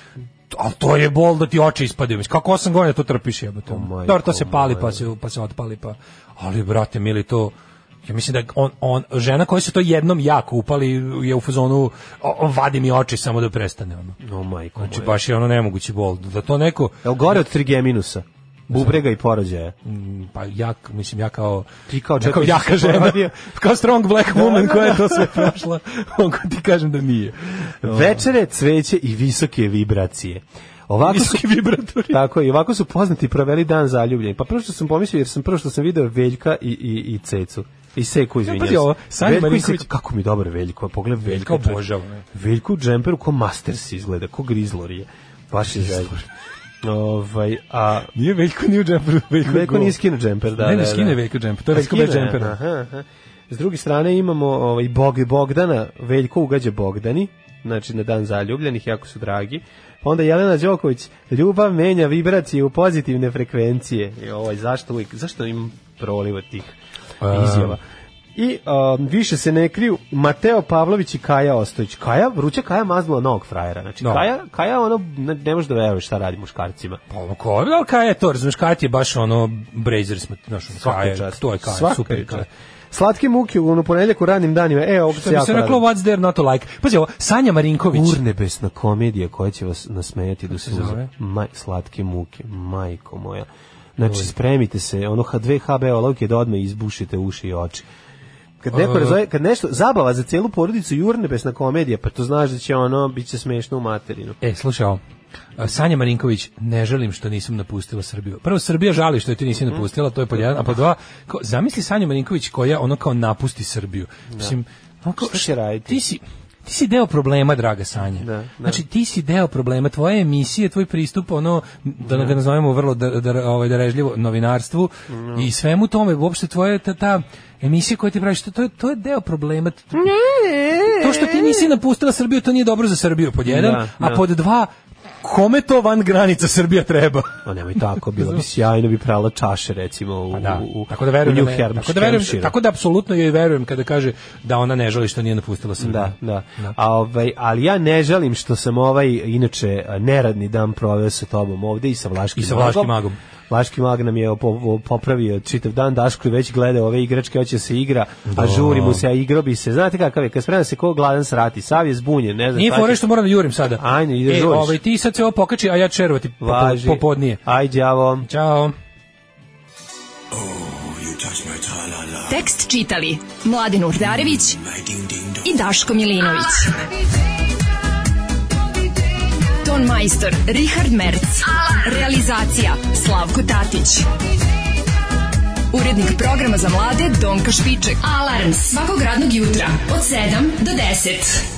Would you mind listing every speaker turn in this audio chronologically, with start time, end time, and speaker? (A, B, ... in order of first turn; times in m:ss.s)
0:00.5-0:14.2 A
0:03.7-0:05.0 B
0:14.2-0:15.2 B
0:14.8-0:17.1 A
0:17.0-0:19.7 B
0:18.7-0:19.0 A
0:19.8-0:28.2 A
0:21.9-0:23.3 B
0:24.3-0:25.5 B
0:27.8-0:31.5 B
0:31.0-0:32.2 A
0:32.1-0:46.2 B
0:38.4-0:39.9 A
0:41.2-0:42.2 A
0:45.7-0:46.2 A
0:46.8-0:48.1 B
0:48.1-0:50.0 A
0:49.4-0:51.2 B
0:50.5-0:52.6 A
0:51.7-1:06.8 B
1:07.2-1:07.8 A
1:07.3-1:07.8 B
1:08.3-1:17.0 B
1:14.0-1:14.3 A
1:17.1-1:22.5 A
1:20.7-1:25.8 B
1:25.1-1:28.2 A
1:27.9-1:37.8 B
1:30.5-1:31.1 A
1:34.1-1:34.3 A
1:38.6-1:44.4 B
1:38.7-1:39.2 A
1:44.4-1:45.0 A
1:45.6-2:10.1 A
1:54.3-1:54.6 B
1:55.2-1:56.0 B
1:58.2-1:58.8 B
2:02.0-2:02.4 B
2:05.1-2:05.5 B
2:10.0-2:11.6 B
2:10.8-2:17.4 A
2:13.4-2:14.2 B
2:17.4-2:22.5 B
2:20.3-2:26.8 A
2:25.8-2:32.9 B
2:32.4-2:33.2 A
2:33.5-2:43.0 B
2:38.3-2:39.0 A
2:42.5-2:47.4 A
2:43.8-2:44.8 B
2:46.4-2:48.3 B
2:48.2-2:48.7 A
2:50.8-2:51.9 A
2:52.2-2:54.7 C
2:55.3-2:56.9 C
2:59.6-3:04.1 C
3:05.7-3:11.5 C